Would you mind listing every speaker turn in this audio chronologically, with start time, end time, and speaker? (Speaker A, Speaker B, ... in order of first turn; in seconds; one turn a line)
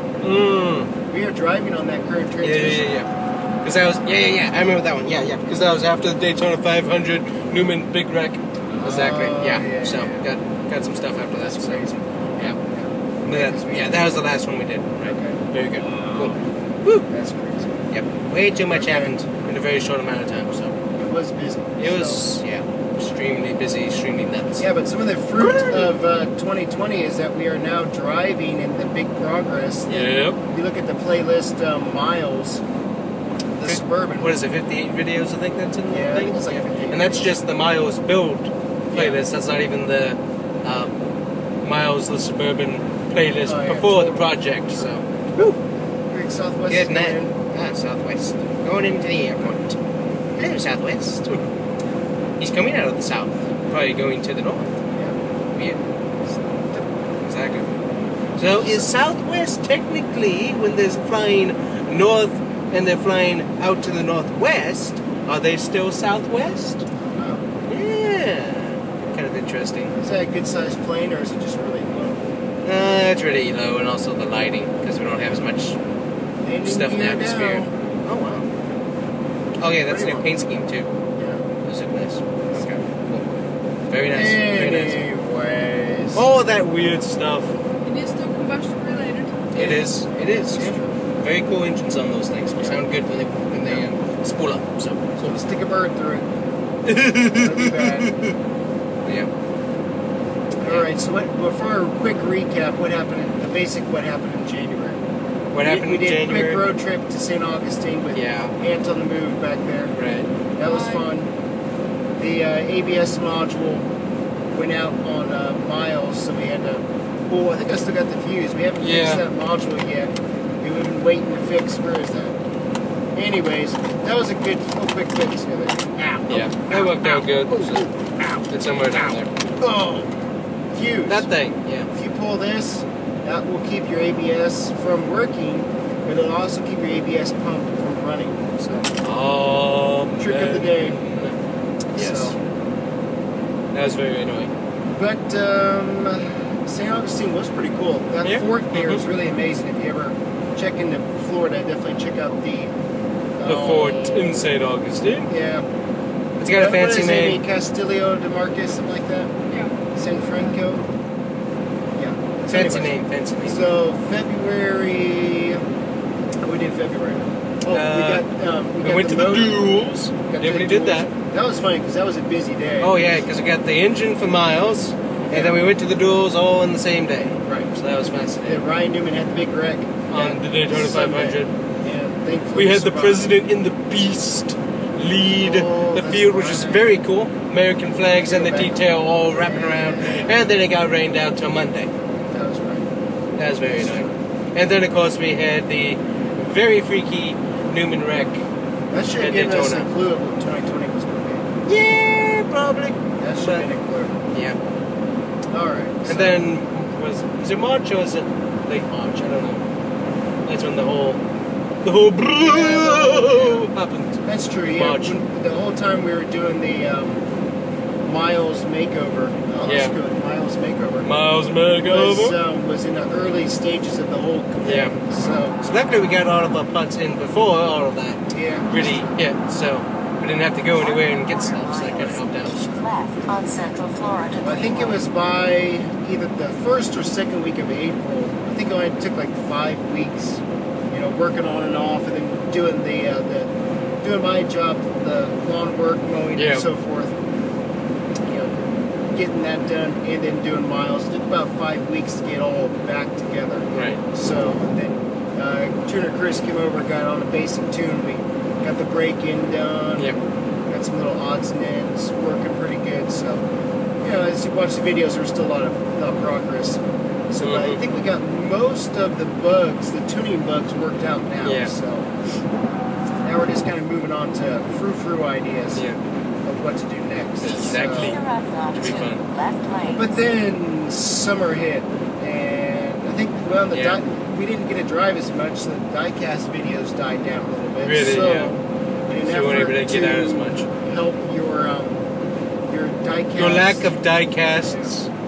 Speaker A: 0.2-0.9
Speaker B: 1.1-2.9
Speaker A: 2.4-3.1
Speaker A: 3.6-12.6
Speaker B: 8.8-10.2
Speaker B: 11.4-14.2
Speaker A: 13.2-17.1
Speaker B: 15.1-15.4
Speaker B: 17.1-17.9
Speaker A: 17.9-20.8
Speaker B: 18.7-19.1
Speaker B: 21.0-22.4
Speaker A: 21.8-24.7
Speaker B: 24.6-32.6
Speaker A: 25.4-26.0
Speaker A: 29.9-30.4
Speaker B: 33.5-34.4
Speaker A: 33.6-41.0
Speaker B: 35.9-37.3
Speaker B: 38.9-39.2
Speaker A: 41.6-45.6
Speaker B: 43.5-45.6
Speaker B: 46.1-47.4
Speaker A: 46.7-49.8
Speaker A: 50.4-51.5
Speaker A: 52.4-54.8
Speaker A: 55.5-55.8
Speaker A: 57.2-57.7
Speaker A: 58.4-66.9
Speaker B: 58.5-58.9
Speaker B: 67.2-67.5
Speaker A: 67.7-70.0
Speaker B: 70.0-72.2
Speaker A: 72.6-75.8
Speaker B: 76.4-77.8
Speaker A: 76.6-78.5
Speaker A: 79.6-80.9
Speaker B: 79.6-80.3
Speaker B: 81.2-81.4
Speaker A: 81.6-85.0
Speaker B: 82.5-82.8
Speaker B: 84.1-86.3
Speaker A: 86.1-87.5
Speaker C: 87.8-89.5
Speaker A: 89.5-95.4
Speaker B: 89.5-91.0
Speaker B: 95.2-96.3
Speaker A: 96.8-98.4
Speaker B: 97.2-98.2
Speaker A: 99.0-99.3
Speaker B: 100.6-105.0
Speaker A: 105.5-106.7
Speaker B: 105.6-110.0
Speaker A: 108.1-108.5
Speaker A: 110.0-110.3
Speaker B: 110.5-111.3
Speaker C: 110.6-111.1
Speaker B: 112.2-113.9
Speaker B: 114.5-122.4
Speaker A: 118.8-119.2
Speaker B: 123.1-130.1
Speaker A: 126.3-127.9
Speaker A: 128.5-129.3
Speaker B: 130.7-131.3
Speaker A: 131.1-131.9
Speaker B: 131.9-138.9
Speaker A: 139.0-141.4
Speaker B: 140.2-141.0
Speaker A: 141.9-142.4
Speaker B: 141.9-142.4
Speaker A: 143.7-144.5
Speaker B: 144.9-152.8
Speaker A: 148.2-149.0
Speaker B: 153.4-154.5
Speaker A: 153.4-155.3
Speaker B: 155.3-155.7
Speaker A: 156.4-157.4
Speaker B: 156.5-159.3
Speaker C: 159.5-159.8
Speaker B: 159.9-160.8
Speaker B: 162.0-165.6
Speaker A: 162.5-163.6
Speaker B: 166.4-169.7
Speaker A: 167.7-168.2
Speaker A: 168.8-171.1
Speaker B: 170.2-172.9
Speaker A: 172.8-178.6
Speaker B: 175.3-175.6
Speaker B: 177.4-177.7
Speaker B: 178.5-183.3
Speaker A: 180.1-181.5
Speaker A: 182.6-191.9
Speaker B: 185.3-186.9
Speaker B: 188.1-190.3
Speaker B: 192.3-192.9
Speaker A: 193.4-198.4
Speaker B: 193.6-194.2
Speaker B: 198.9-201.5
Speaker A: 199.2-199.9
Speaker A: 201.7-203.7
Speaker B: 203.2-204.3
Speaker A: 204.3-204.6
Speaker B: 205.5-206.5
Speaker A: 206.1-209.7
Speaker A: 210.4-211.2
Speaker A: 211.8-215.2
Speaker B: 212.3-213.7
Speaker B: 214.2-217.3
Speaker B: 218.0-221.1
Speaker A: 219.7-220.0
Speaker A: 221.0-222.4
Speaker B: 221.8-225.6
Speaker A: 224.6-225.0
Speaker A: 225.5-232.7
Speaker B: 228.3-229.2
Speaker D: 230.7-235.0
Speaker B: 234.4-243.5
Speaker B: 244.0-247.2
Speaker A: 246.3-246.7
Speaker B: 248.2-248.6
Speaker B: 249.1-263.4
Speaker A: 253.7-254.0
Speaker B: 264.0-272.1
Speaker A: 267.4-267.8
Speaker A: 271.4-271.7
Speaker B: 273.2-275.8
Speaker B: 276.4-278.1
Speaker A: 277.4-278.2
Speaker D: 277.8-280.1
Speaker A: 278.8-279.2
Speaker B: 279.9-292.1
Speaker A: 283.7-284.0
Speaker A: 287.8-288.6
Speaker A: 289.2-290.7
Speaker B: 292.7-293.9
Speaker A: 293.4-295.1
Speaker B: 294.6-294.9